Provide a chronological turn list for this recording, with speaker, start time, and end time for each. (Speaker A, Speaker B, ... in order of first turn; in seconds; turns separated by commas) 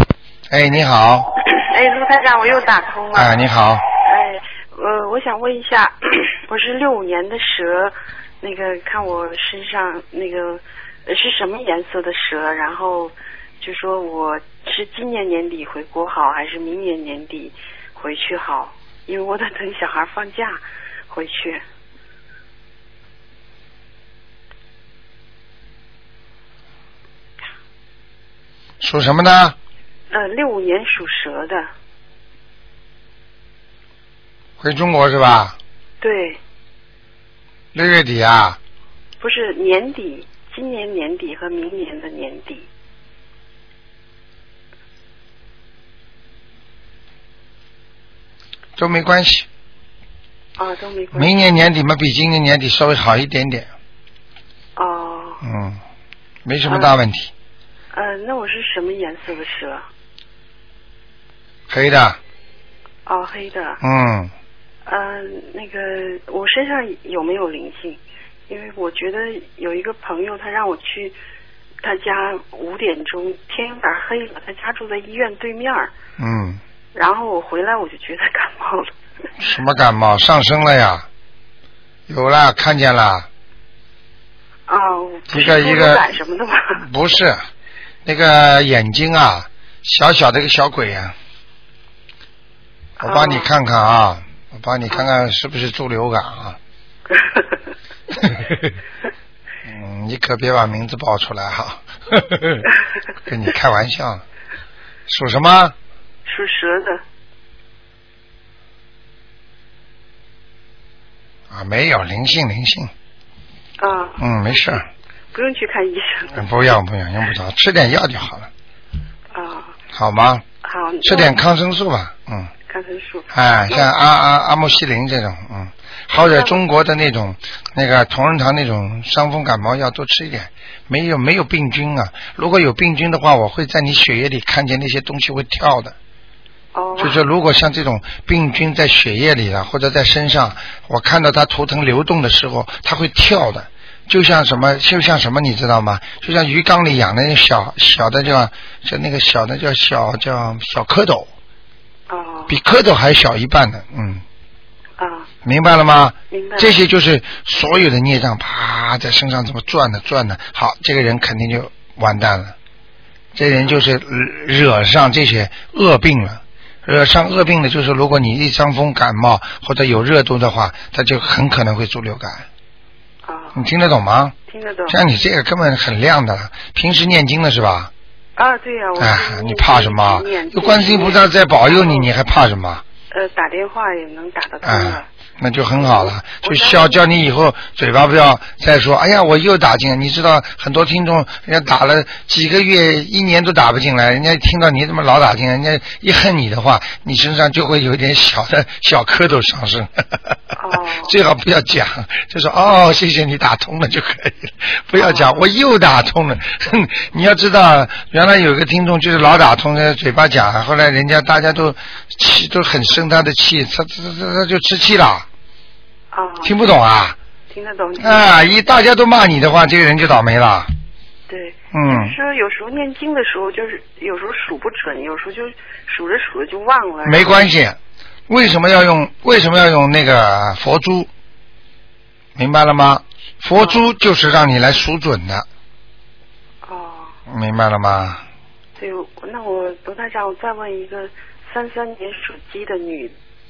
Speaker A: 0.5-1.3, Speaker B: 1.5-3.4, Speaker A: 3.1-3.8, Speaker B: 4.0-21.6, Speaker A: 28.8-29.6, Speaker B: 30.1-31.7, Speaker A: 34.6-35.5, Speaker B: 36.0-36.4, Speaker A: 37.7-38.6, Speaker B: 39.2-42.7, Speaker A: 48.8-49.5, Speaker B: 50.6-51.3, Speaker A: 51.1-53.7, Speaker B: 54.8-55.4, Speaker A: 55.4-55.8, Speaker A: 56.4-57.3, Speaker B: 56.6-56.9, Speaker B: 57.9-59.8, Speaker A: 61.7-62.2, Speaker B: 63.0-63.8, Speaker A: 63.8-64.3, Speaker B: 64.8-71.2, Speaker B: 71.8-75.9, Speaker A: 76.2-76.6, Speaker B: 76.9-78.9, Speaker A: 79.4-81.0, Speaker A: 82.1-83.3, Speaker B: 84.7-86.8, Speaker A: 85.3-86.0, Speaker A: 86.8-87.4, Speaker A: 88.0-91.1, Speaker B: 93.0-93.5, Speaker A: 93.0-96.6, Speaker B: 97.1-97.5, Speaker A: 98.2-98.5, Speaker A: 99.6-102.6, Speaker A: 103.2-104.2, Speaker A: 105.1-105.7, Speaker B: 106.2-107.0, Speaker A: 111.5-112.9, Speaker B: 113.8-116.5, Speaker A: 114.2-114.8, Speaker A: 116.3-118.5, Speaker B: 119.3-119.7, Speaker A: 119.9-120.4, Speaker B: 120.6-121.4, Speaker A: 121.0-122.5, Speaker B: 122.7-123.9, Speaker A: 123.3-135.9, Speaker B: 126.2-126.6, Speaker B: 136.7-137.2, Speaker A: 137.0-151.3, Speaker B: 152.1-152.6, Speaker A: 152.5-154.2, Speaker B: 155.0-155.3, Speaker A: 155.4-162.5, Speaker B: 156.3-156.8, Speaker A: 163.3-172.4, Speaker B: 173.2-173.6, Speaker A: 173.5-174.3, Speaker B: 174.5-175.0, Speaker A: 174.9-177.9, Speaker B: 178.3-182.1, Speaker A: 179.0-182.8, Speaker B: 183.1-185.1, Speaker A: 184.6-200.3, Speaker B: 185.8-187.0, Speaker B: 200.6-201.1, Speaker A: 201.0-215.2, Speaker B: 205.0-205.4, Speaker B: 216.1-216.7, Speaker A: 216.4-217.2, Speaker B: 217.5-218.3, Speaker A: 218.0-220.7, Speaker B: 221.3-227.5, Speaker A: 221.7-222.2, Speaker A: 227.0-227.8, Speaker A: 228.3-231.1, Speaker A: 232.3-235.4, Speaker B: 233.6-233.8, Speaker B: 236.6-237.2, Speaker A: 237.3-238.2, Speaker B: 238.8-243.1